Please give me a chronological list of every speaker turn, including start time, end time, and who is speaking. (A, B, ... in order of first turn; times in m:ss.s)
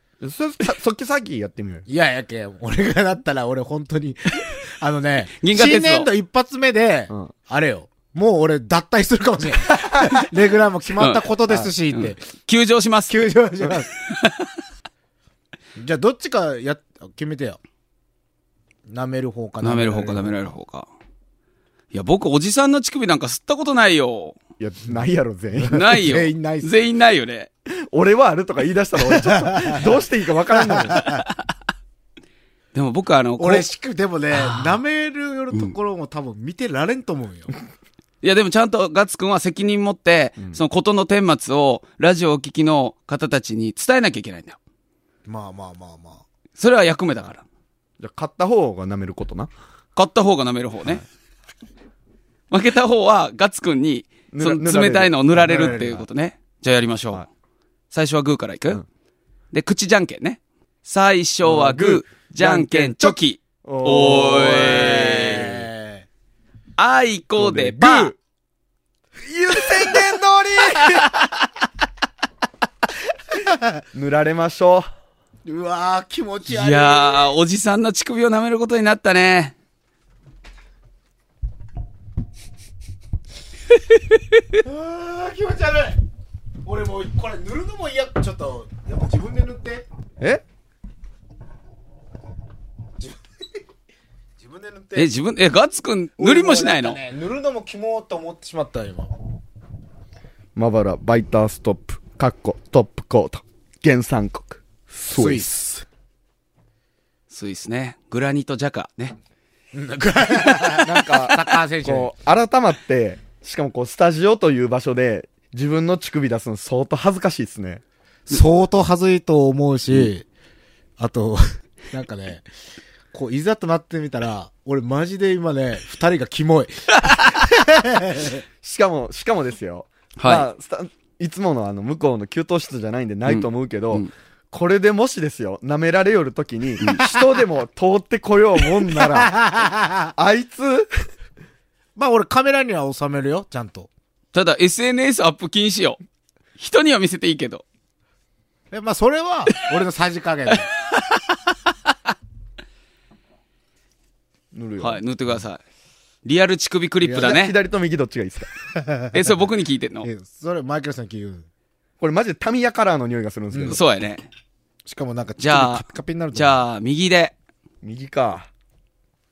0:00.2-0:01.9 A
0:01.9-0:12.2 B
0:05.4-0:06.1 C
0:09.7-0:10.2 A
0:11.0-0:11.3 C
0:11.9-0:13.3 C
0:13.1-0:13.9 B
0:14.0-0:14.5 C
0:15.8-0:17.6 B
0:18.9-0:20.3 B
0:19.6-0:20.9 C
0:21.9-0:24.4 C
0:24.6-0:25.8 A
0:25.6-0:26.7 B
0:25.7-0:27.5 C
0:27.7-0:31.0 A
0:29.1-0:29.8 B
0:30.5-0:31.2 B
0:31.0-0:31.3 C
0:32.7-0:33.7 C
0:33.4-0:37.5 B
0:34.3-0:34.8 C
0:38.2-0:44.6 C
0:45.2-0:46.2 B
0:46.6-0:47.4 C
0:48.0-0:49.5 A
0:49.9-0:51.0 C
0:52.5-0:57.2 C
0:54.3-0:55.8 A
0:55.4-0:56.0 B
0:57.9-0:58.8 C
0:59.5-1:05.5 C
1:01.4-1:05.6 A
1:03.9-1:06.0 B
1:06.8-1:08.1 C
1:07.4-1:08.2 A
1:09.2-1:11.1 A
1:09.7-1:10.0 B
1:10.8-1:11.1 B
1:13.4-1:13.7 B
1:13.9-1:14.9 A
1:15.4-1:17.3 B
1:16.4-1:19.5 C
1:24.6-1:26.0 B
1:26.6-1:29.8 B
1:34.4-1:35.1 B
1:35.0-1:37.0 C
1:36.2-1:39.1 B
1:40.6-1:45.5 A
1:45.1-1:45.8 B
1:47.3-1:49.2 C
1:49.7-1:52.1 B
1:50.6-1:57.8 A
1:58.3-2:00.2 B
2:01.0-2:02.4 B
2:03.1-2:08.4 B
2:08.6-2:19.4 A
2:10.2-2:10.5 C
2:13.3-2:14.1 C
2:18.9-2:20.1 B
2:20.2-2:20.9 A
2:22.0-2:23.9 B
2:24.3-2:26.0 C
2:26.6-2:27.6 C
2:28.7-2:30.7 B
2:34.5-2:35.0 A
2:34.8-2:35.6 C
2:36.2-2:37.5 C
2:37.0-2:38.5 A
2:38.8-2:39.1 B
2:39.1-2:40.1 C
2:40.0-2:41.4 B
2:42.0-2:43.8 A
2:43.5-2:43.8 B
2:43.7-2:44.3 C
2:44.8-2:46.6 B
2:45.4-2:45.8 C
2:46.3-2:47.3 C
2:47.8-2:48.5 A